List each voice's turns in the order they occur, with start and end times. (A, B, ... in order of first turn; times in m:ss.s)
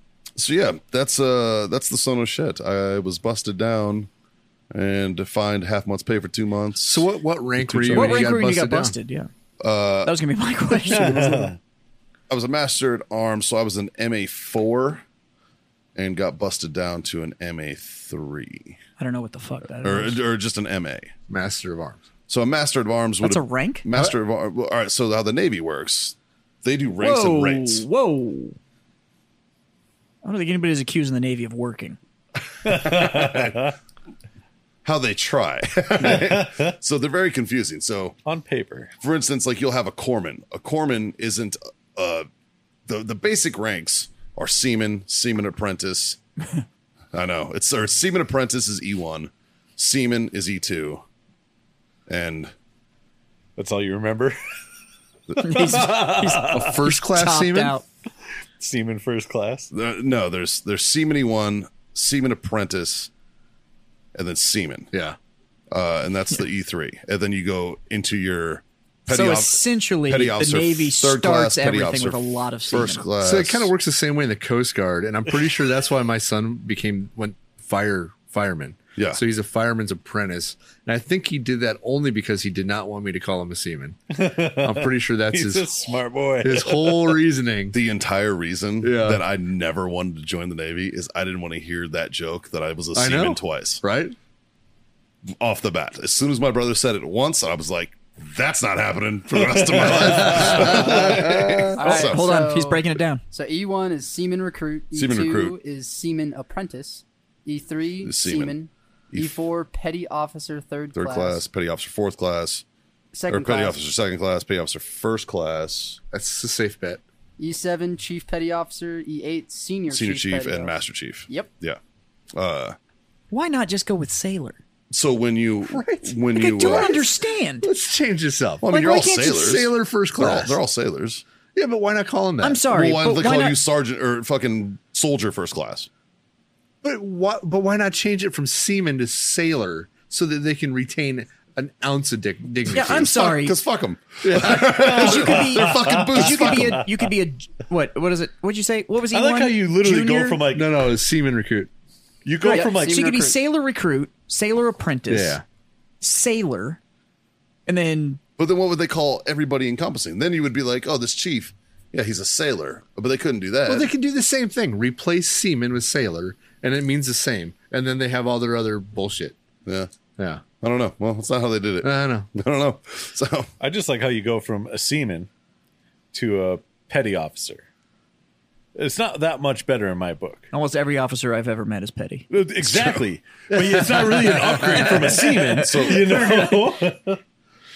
0:00.4-0:04.1 A
0:04.7-0:07.0 A
0:06.8-0:09.0 B
0:07.7-0:08.0 A
0:07.9-0:09.3 C
0:09.6-0:10.2 A
0:10.0-0:11.4 C
0:10.9-0:11.3 A
0:10.9-0:11.6 D
0:12.3-0:15.0 A
0:16.0-0:18.8 A
0:19.0-0:20.2 C
0:19.8-0:21.1 A
0:21.3-0:22.0 B
0:22.3-0:27.9 A
0:23.2-0:23.9 C
0:27.0-0:28.6 C
0:30.2-0:32.0 C
0:32.6-0:33.7 A
0:32.6-0:33.7 D
0:34.8-0:38.2 A
0:36.0-0:36.7 D
0:38.2-0:38.9 D
0:39.0-0:42.3 A
0:42.9-0:46.2 A
0:47.1-0:51.0 A
0:52.1-0:52.5 A
0:53.6-0:54.4 D
0:55.3-0:55.6 A
0:55.4-0:57.8 C
0:55.4-0:56.6 D
0:56.4-0:57.8 B
0:58.6-0:59.7 D
0:59.7-1:03.1 A
1:04.1-1:04.9 A
1:05.7-1:13.7 A
1:09.1-1:13.1 C
1:13.2-1:25.7 B
1:24.1-1:27.2 D
1:26.4-1:27.8 B
1:27.7-1:33.8 A
1:28.8-1:29.2 B
1:33.0-1:34.1 B
1:35.4-1:42.4 A
1:39.5-1:41.2 D
1:40.4-1:41.6 B
1:41.7-1:51.5 E
1:41.8-1:43.2 C
1:44.9-1:45.6 A
1:48.0-1:48.6 A
1:50.9-1:52.6 A
1:53.1-1:53.8 E
1:53.3-1:56.0 A
1:56.1-1:57.0 B
1:57.4-2:01.5 E
1:59.9-2:01.8 A
2:02.4-2:02.8 A
2:03.3-2:04.6 C
2:04.9-2:07.1 A
2:05.6-2:07.0 B
2:06.3-2:07.7 C
2:07.6-2:10.6 B
2:08.6-2:11.2 A
2:08.6-2:09.4 C
2:11.5-2:12.7 B
2:12.4-2:13.6 C
2:12.7-2:15.9 A
2:16.8-2:23.2 B
2:22.7-2:23.6 C
2:22.8-2:26.8 A
2:24.2-2:25.1 B
2:24.8-2:30.4 C
2:25.1-2:26.8 D
2:29.1-2:30.9 D
2:30.5-2:31.7 B
2:32.2-2:33.0 D
2:32.4-2:33.4 E
2:32.5-2:35.4 C
2:35.1-2:35.4 B
2:36.0-2:36.8 C
2:37.6-2:38.2 C
2:38.4-2:43.9 A
2:43.6-2:49.4 B
2:49.6-2:49.9 A
2:50.2-2:50.4 B
2:50.6-2:53.5 A
2:51.8-2:52.3 B
2:53.6-2:55.3 D
2:56.1-2:57.6 D
2:58.8-3:00.5 D
3:00.5-3:02.3 C
3:02.3-3:07.2 D
3:02.7-3:03.0 A
3:04.0-3:05.8 C
3:04.1-3:04.8 B
3:05.5-3:06.4 A